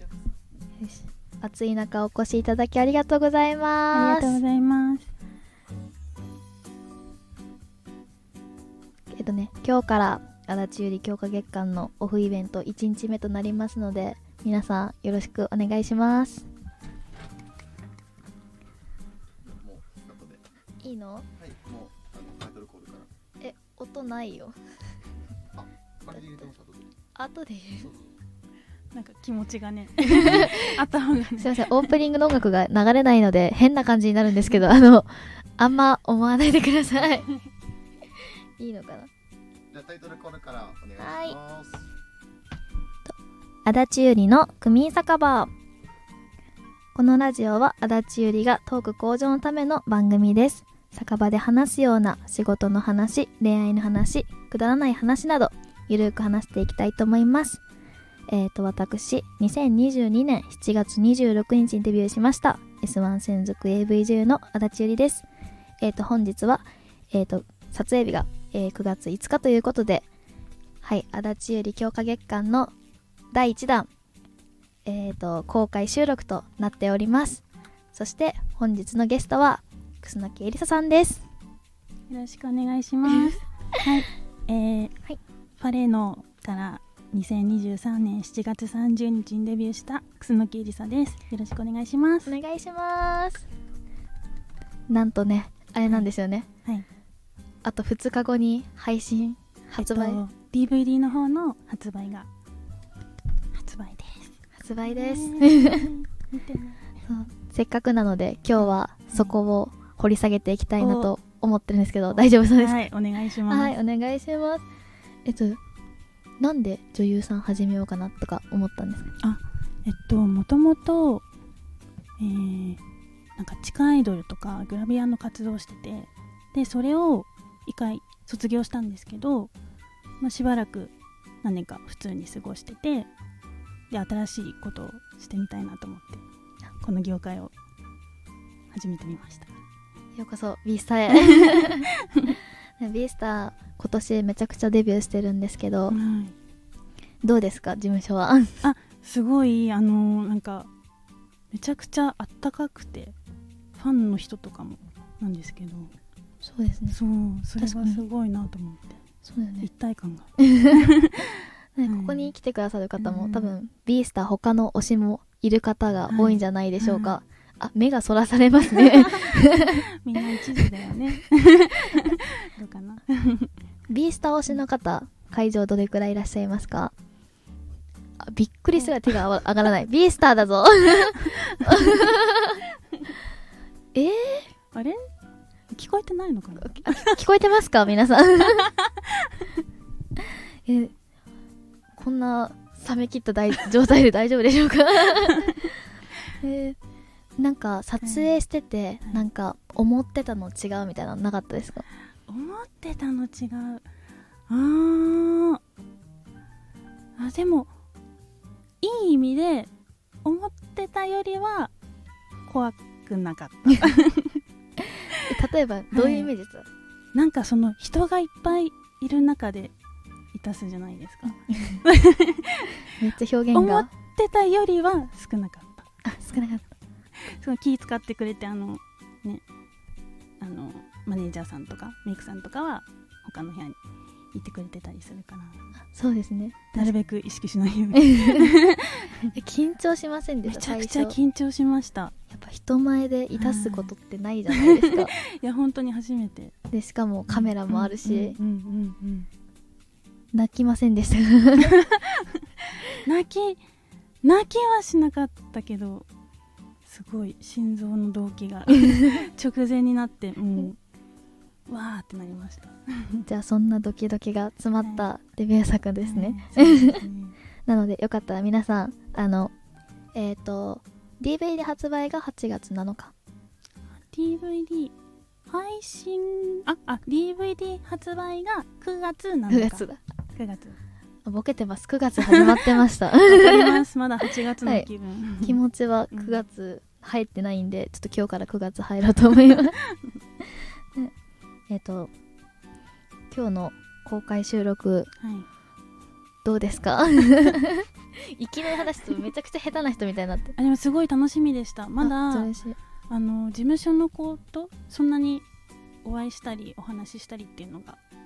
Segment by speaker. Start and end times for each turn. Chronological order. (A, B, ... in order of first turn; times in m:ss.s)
0:00.8-0:04.4 A
0:03.9-0:05.1 B
0:09.1-0:16.5 A
0:19.4-0:20.4 C
0:20.8-0:21.3 A
0:21.4-0:23.1 C
0:23.4-0:24.6 A
0:25.6-0:26.8 C
0:27.1-0:27.9 A
0:28.9-0:31.8 B
0:30.0-0:30.8 A
0:31.4-0:37.3 A
0:38.2-0:39.1 A
0:39.7-0:41.9 C
0:41.0-0:41.4 A
0:43.0-0:45.5 A
0:46.9-0:57.6 A
0:58.3-1:05.2 A
1:05.8-1:10.1 A
1:10.8-1:12.7 A
1:13.3-1:13.9 A
1:14.8-1:21.2 A
1:22.1-1:24.9 B
1:25.6-1:32.4 B
1:32.3-1:33.4 A
1:34.9-1:36.5 A
1:37.6-1:40.2 A
1:39.8-1:42.3 B
1:43.5-1:46.9 B
1:44.6-1:45.9 A
1:47.1-1:52.8 A
1:48.6-1:49.4 B
1:50.8-1:51.1 B
1:52.6-1:53.7 B
1:53.5-1:54.6 A
1:55.2-1:55.6 A
1:56.4-1:59.1 A
1:59.2-2:01.2 B
2:02.2-2:02.8 B
2:03.4-2:09.5 B
2:10.2-2:13.1 B
2:13.9-2:16.2 B
2:16.8-2:17.5 B
2:18.7-2:19.5 B
2:20.1-2:21.8 A
2:21.1-2:22.3 B
2:22.8-2:26.0 A
2:25.9-2:26.4 B
2:27.2-2:28.6 A
2:28.6-2:30.7 B
2:31.5-2:33.1 B
2:33.8-2:35.9 B
2:36.4-2:37.0 A
2:36.9-2:39.0 B
2:37.6-2:38.0 A
2:39.2-2:39.7 A
2:39.6-2:42.3 B
2:40.4-2:40.9 A
2:41.8-2:49.8 A
2:43.0-2:43.5 B
2:46.1-2:47.2 B
2:48.7-2:53.5 B
2:53.9-2:56.9 A
2:58.2-3:02.6 A
3:03.9-3:04.5 A
3:04.7-3:05.0 B
3:05.7-3:07.2 B
3:06.6-3:08.7 A
3:08.7-3:09.3 B
3:10.2-3:10.9 A
3:11.9-3:15.8 A
3:16.4-3:16.8 A
3:17.4-3:21.8 A
3:18.0-3:18.3 B
3:22.3-3:23.8 B
3:24.5-3:25.6 B
3:27.2-3:27.7 B
3:28.8-3:29.7 B
3:30.2-3:31.7 B
3:32.4-3:34.4 B
3:35.2-3:36.7 A
3:35.9-3:36.3 B
3:37.1-3:39.7 B
3:40.3-3:42.9 B
3:41.5-3:41.8 A
3:43.0-3:43.9 A
3:43.5-3:45.9 B
3:46.0-3:46.7 A
3:47.2-3:49.4 B
3:50.4-3:53.8 B
3:54.3-3:55.6 B
3:55.9-3:56.9 A
3:56.7-3:59.3 B
3:58.0-3:58.5 A
3:59.3-4:01.2 A
4:00.4-4:02.1 B
4:02.3-4:05.1 A
4:03.4-4:03.9 B
4:04.5-4:06.5 B
4:06.7-4:08.4 A
4:07.3-4:09.3 B
4:10.3-4:11.7 A
4:11.6-4:13.6 B
4:14.2-4:16.1 B
4:16.8-4:20.8 B
4:21.7-4:23.3 B
4:23.3-4:27.0 A
4:24.8-4:25.1 B
4:26.0-4:27.4 B
4:27.6-4:29.5 A
4:30.1-4:33.1 A
4:34.1-4:34.9 B
4:35.5-4:40.8 B
4:39.5-4:40.0 A
4:41.2-4:43.8 A
4:42.2-4:45.6 B
4:45.4-4:49.7 A
4:46.1-4:46.4 B
4:51.7-4:52.1 A
4:53.3-4:55.1 A
4:55.2-4:55.5 B
4:56.4-5:00.5 A
5:00.6-5:02.5 B
5:02.0-5:02.8 A
5:03.1-5:05.4 B
5:06.0-5:08.0 B